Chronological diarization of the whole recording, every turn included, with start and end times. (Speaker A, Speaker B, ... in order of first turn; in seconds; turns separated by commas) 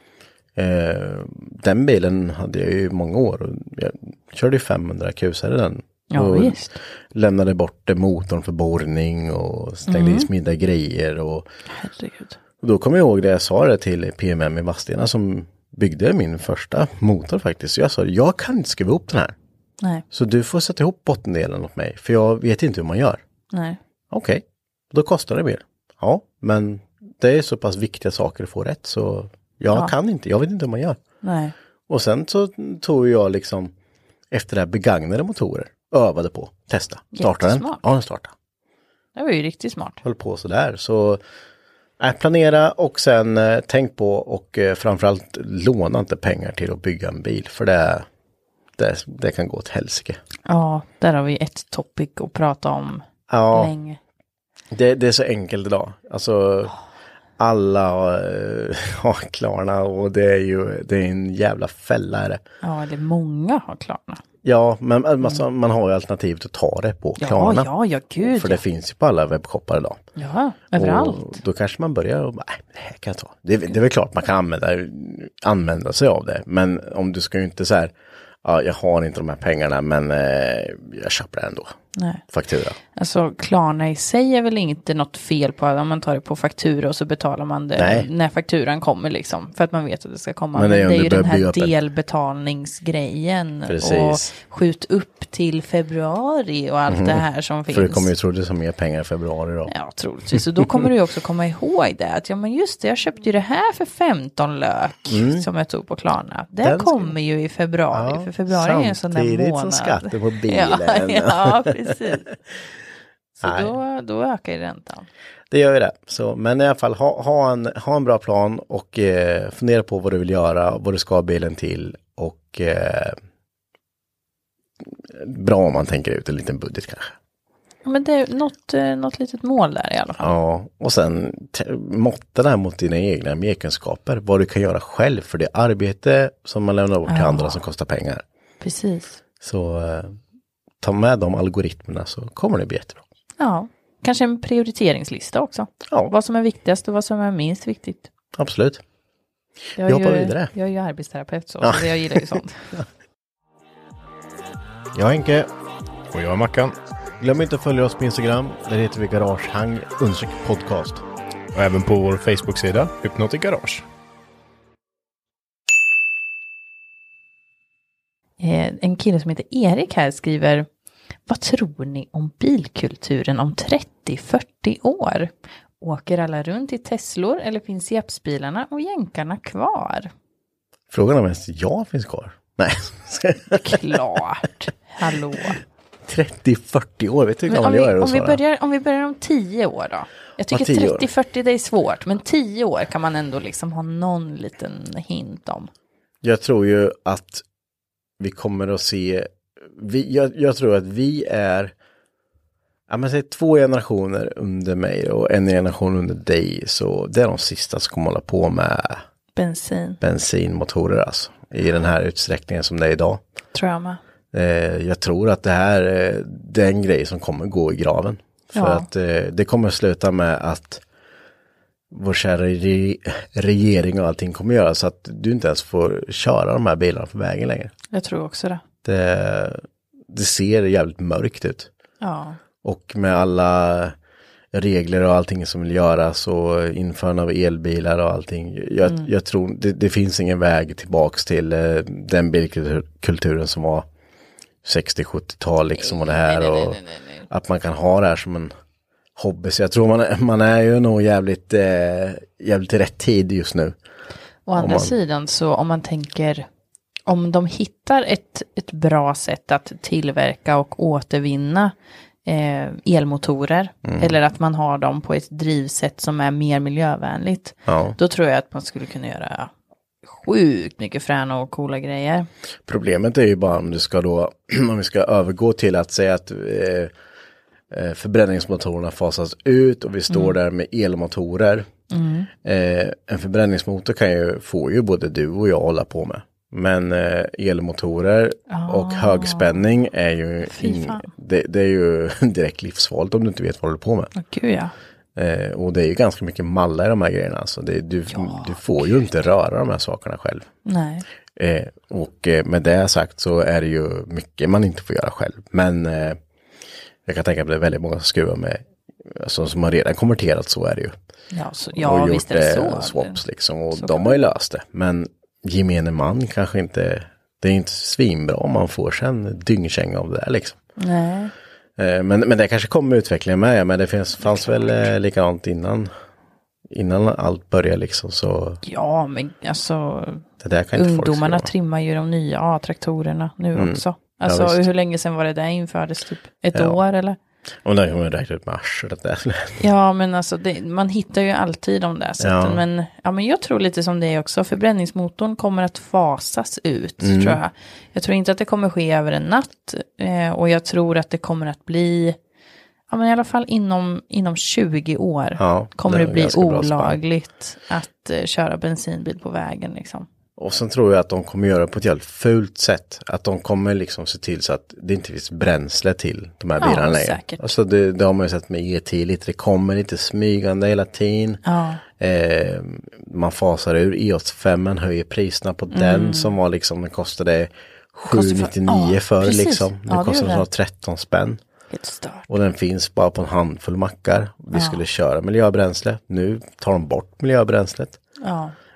Speaker A: 0.6-11.5, Speaker B: 6.1-6.7, Speaker B: 9.9-10.3, Speaker B: 11.7-12.4, Speaker A: 12.6-19.3, Speaker A: 20.1-23.2, Speaker B: 23.5-23.8, Speaker A: 24.1-31.0, Speaker B: 31.2-31.5, Speaker A: 31.9-33.7, Speaker A: 34.3-38.3, Speaker B: 37.1-37.8, Speaker B: 39.1-40.0, Speaker A: 40.0-41.2, Speaker A: 42.0-48.0, Speaker A: 48.8-50.2, Speaker B: 50.5-54.0, Speaker A: 53.3-53.7, Speaker A: 54.7-56.7, Speaker A: 57.4-62.4, Speaker B: 62.6-64.2, Speaker A: 64.4-70.0, Speaker B: 67.2-68.6, Speaker B: 70.2-71.4, Speaker A: 70.7-81.7, Speaker B: 82.0-82.2, Speaker A: 82.3-82.8, Speaker B: 82.9-98.1, Speaker A: 87.8-88.1, Speaker A: 90.5-91.7, Speaker A: 93.7-94.3, Speaker A: 96.9-99.7, Speaker B: 99.7-112.3, Speaker A: 100.3-100.9, Speaker A: 105.1-105.5, Speaker A: 106.6-107.1, Speaker A: 107.9-112.3, Speaker B: 113.4-115.1, Speaker A: 113.4-113.8, Speaker A: 115.5-123.2, Speaker A: 125.1-127.1, Speaker B: 127.8-130.3, Speaker A: 130.2-138.2, Speaker B: 137.1-137.6, Speaker B: 138.6-139.2, Speaker A: 139.4-140.2, Speaker A: 140.8-143.0, Speaker B: 143.4-148.1, Speaker A: 145.9-146.1, Speaker A: 148.3-148.8, Speaker B: 149.8-152.6, Speaker A: 149.8-150.5, Speaker A: 151.6-152.8, Speaker A: 154.9-155.5, Speaker C: 156.1-156.8, Speaker A: 157.2-161.0, Speaker C: 161.5-163.8, Speaker B: 168.4-170.7, Speaker B: 171.3-180.1, Speaker A: 180.9-183.9, Speaker B: 183.5-185.6, Speaker A: 186.0-188.4, Speaker B: 187.5-195.7, Speaker A: 190.5-191.1, Speaker A: 196.2-197.4, Speaker A: 198.2-201.7, Speaker A: 202.9-209.0, Speaker B: 209.3-210.0, Speaker A: 210.0-213.2, Speaker B: 213.5-214.0, Speaker A: 214.3-220.8, Speaker B: 218.5-218.9, Speaker A: 221.9-227.7, Speaker B: 227.9-228.6, Speaker A: 228.8-231.7, Speaker B: 232.0-232.4, Speaker A: 232.6-233.9, Speaker A: 234.5-243.9, Speaker B: 238.8-239.1, Speaker A: 244.6-248.5, Speaker B: 245.8-247.3, Speaker A: 249.2-253.8, Speaker B: 254.5-256.5, Speaker A: 254.6-254.9, Speaker B: 257.1-261.7, Speaker B: 262.2-269.5, Speaker A: 263.8-264.1, Speaker A: 267.7-268.0, Speaker B: 270.1-272.3, Speaker A: 272.6-276.9, Speaker A: 277.7-281.7, Speaker B: 280.1-280.4, Speaker B: 281.9-282.3, Speaker A: 282.4-294.1, Speaker B: 288.5-289.6, Speaker B: 290.4-291.1, Speaker B: 294.1-294.7, Speaker A: 295.1-300.5, Speaker B: 298.1-298.6, Speaker B: 300.6-301.1, Speaker A: 301.4-306.2, Speaker A: 307.0-310.9, Speaker B: 311.3-313.2, Speaker A: 311.8-320.6, Speaker B: 313.7-314.2, Speaker B: 320.8-321.3, Speaker A: 321.8-325.9, Speaker B: 324.2-324.9, Speaker A: 326.7-328.6, Speaker B: 328.6-330.2, Speaker A: 330.4-331.5, Speaker B: 330.8-337.2, Speaker A: 333.5-334.6, Speaker A: 336.5-336.8, Speaker A: 337.6-339.6, Speaker B: 339.6-352.2, Speaker A: 342.2-342.6, Speaker A: 347.0-347.4, Speaker B: 352.9-360.1, Speaker A: 355.4-357.0, Speaker A: 360.4-371.4, Speaker B: 366.6-367.5, Speaker B: 371.4-371.8, Speaker A: 372.0-381.4, Speaker B: 375.7-376.4, Speaker B: 378.1-380.5, Speaker B: 381.7-382.3, Speaker A: 382.3-388.0, Speaker B: 384.5-384.8, Speaker B: 388.2-388.5